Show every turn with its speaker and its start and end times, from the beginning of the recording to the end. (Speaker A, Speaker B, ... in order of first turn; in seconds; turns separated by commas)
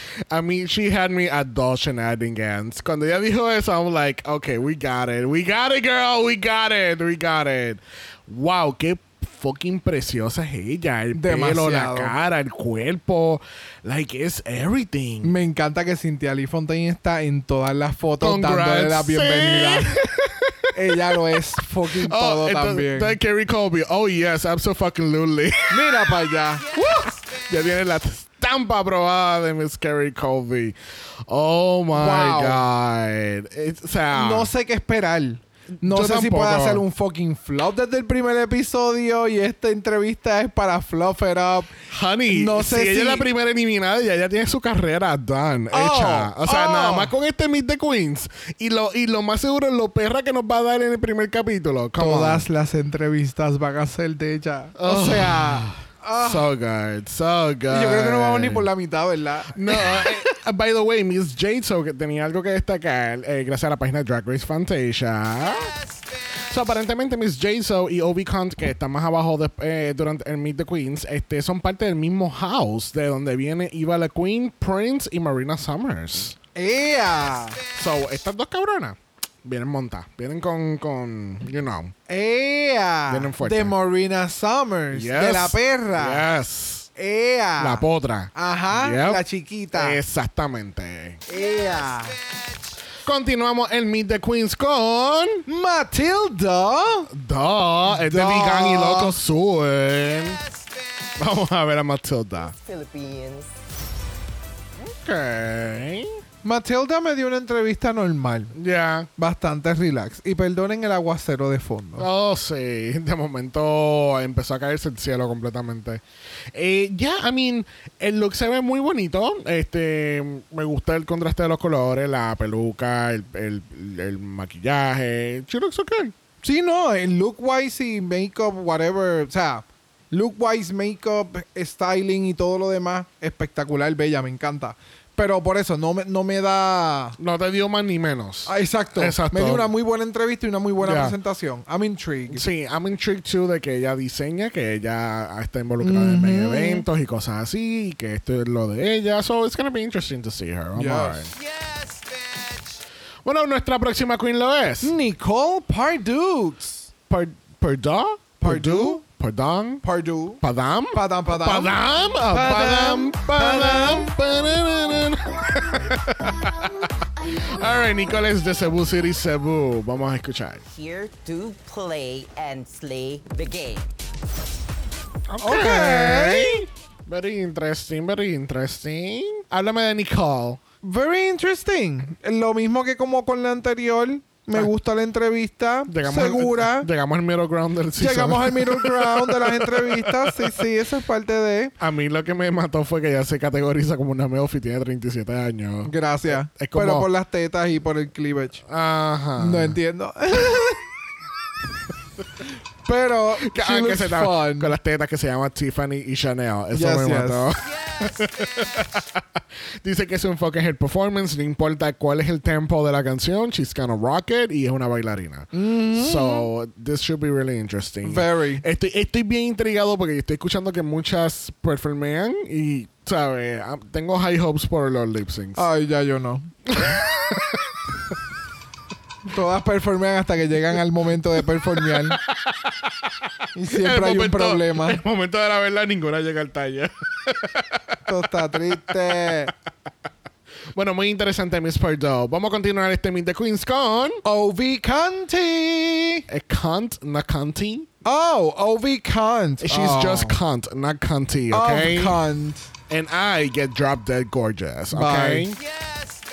Speaker A: 0.3-15.3, Speaker B: 11.1-12.1, Speaker B: 15.2-19.9, Speaker A: 18.2-26.1, Speaker B: 20.7-23.2, Speaker B: 25.7-26.6, Speaker A: 26.7-34.5, Speaker B: 31.9-32.6, Speaker B: 34.1-41.8, Speaker A: 35.8-36.8, Speaker A: 41.9-52.5, Speaker B: 42.3-43.3, Speaker B: 45.7-47.1, Speaker B: 52.0-56.5, Speaker A: 54.8-58.7, Speaker B: 57.7-60.2, Speaker A: 59.5-65.7, Speaker A: 66.5-76.3, Speaker B: 76.5-77.6, Speaker A: 77.7-81.9, Speaker B: 82.1-86.2, Speaker A: 83.1-83.7, Speaker A: 84.9-86.9, Speaker B: 87.0-90.0, Speaker A: 87.6-89.2, Speaker A: 89.7-91.2, Speaker C: 91.3-92.1, Speaker A: 93.0-95.4, Speaker B: 95.5-97.1, Speaker A: 97.1-100.4, Speaker B: 97.9-99.2, Speaker A: 101.2-102.5, Speaker C: 102.4-103.5, Speaker A: 104.8-106.2, Speaker B: 106.4-108.5, Speaker A: 108.5-109.1, Speaker B: 109.2-112.1, Speaker A: 112.0-116.0, Speaker A: 116.5-126.1, Speaker B: 126.4-137.2, Speaker A: 137.2-139.7, Speaker B: 138.4-142.4, Speaker A: 140.8-141.2, Speaker A: 142.3-151.3, Speaker B: 145.8-146.8, Speaker B: 150.8-151.3, Speaker A: 153.2-154.9, Speaker B: 154.8-156.9, Speaker A: 157.1-159.8, Speaker B: 158.4-159.0, Speaker B: 159.8-164.1, Speaker A: 160.4-170.6, Speaker C: 170.7-173.9, Speaker A: 175.3-180.6, Speaker B: 175.4-176.6, Speaker B: 180.8-186.9, Speaker A: 185.9-190.6, Speaker B: 188.0-191.7, Speaker A: 191.8-197.1, Speaker B: 195.8-198.6, Speaker A: 198.7-199.8, Speaker B: 199.4-200.8, Speaker B: 202.8-204.7, Speaker A: 203.4-209.2, Speaker B: 206.7-207.4, Speaker A: 209.8-225.6, Speaker B: 215.5-216.5, Speaker B: 218.0-218.6, Speaker B: 225.6-226.5, Speaker A: 226.7-227.8, Speaker B: 229.2-232.2, Speaker A: 231.8-239.5, Speaker B: 233.5-235.0, Speaker B: 238.1-239.5, Speaker A: 240.7-244.2, Speaker B: 244.2-246.2, Speaker A: 246.3-247.9, Speaker B: 248.0-250.4, Speaker A: 249.6-252.2, Speaker B: 251.5-252.7, Speaker A: 252.9-255.6, Speaker B: 254.9-255.5